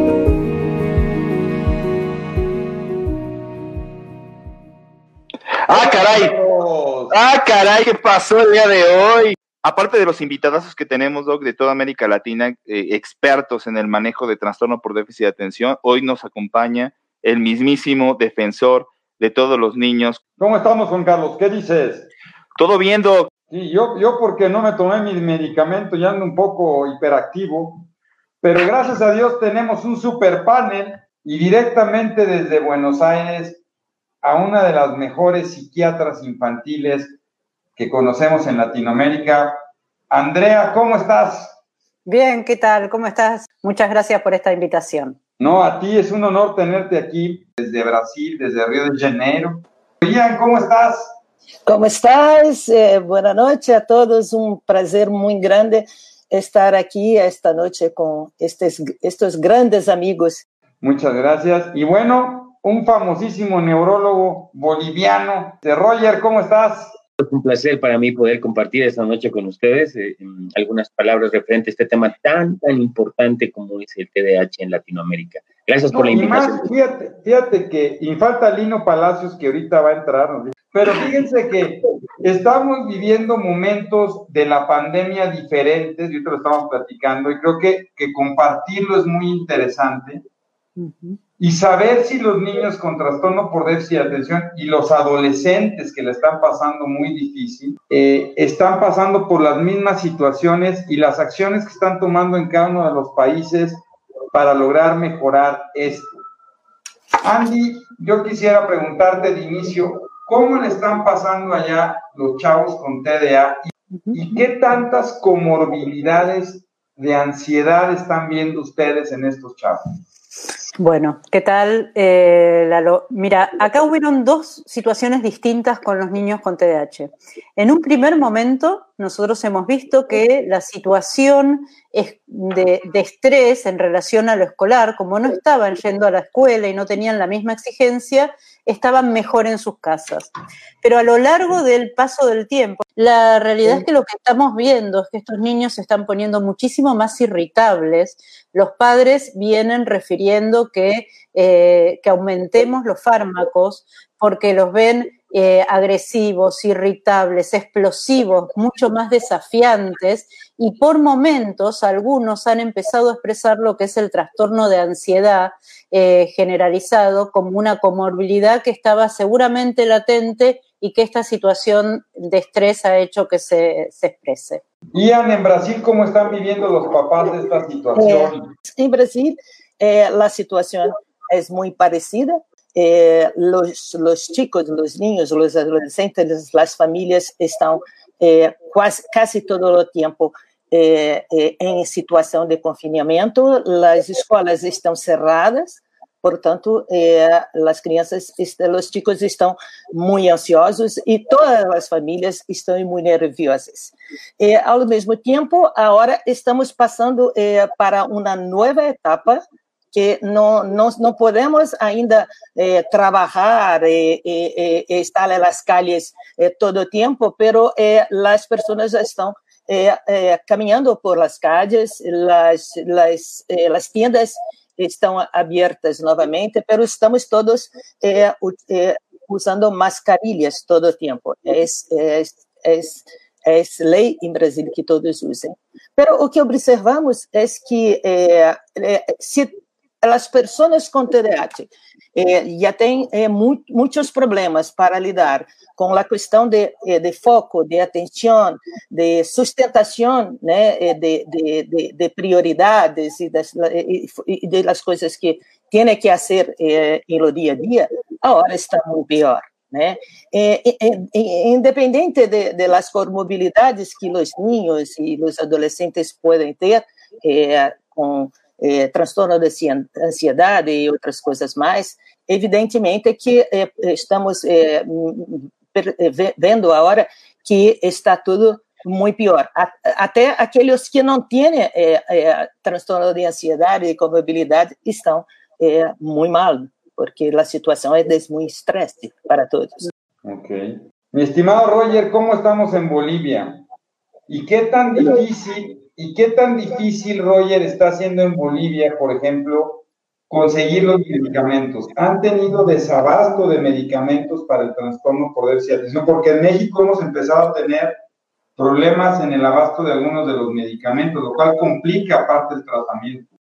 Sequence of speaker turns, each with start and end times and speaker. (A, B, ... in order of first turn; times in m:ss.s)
0:05.7-0:07.2 A
0:05.7-0:06.4 B
0:07.1-0:20.2 B
0:20.4-0:22.1 A
0:22.6-0:23.3 B
0:23.5-0:27.9 A
0:28.4-0:33.6 A
0:34.2-0:37.2 A
0:37.8-0:39.6 A
0:40.1-0:41.6 A
0:42.0-0:45.2 C
0:45.4-0:51.2 A
0:51.7-1:00.4 D
1:00.8-1:07.0 A
1:07.2-1:16.7 E
1:15.9-1:30.2 A
1:30.8-1:31.2 C
1:31.4-1:46.1 A
1:47.2-2:00.0 A
1:53.9-1:54.2 C
2:00.8-2:54.6 C
2:54.9-2:58.5 A
2:58.0-3:29.4 D
3:29.9-4:49.9 D
4:50.2-4:53.6 A
4:54.3-5:08.0 A
5:08.6-5:13.3 A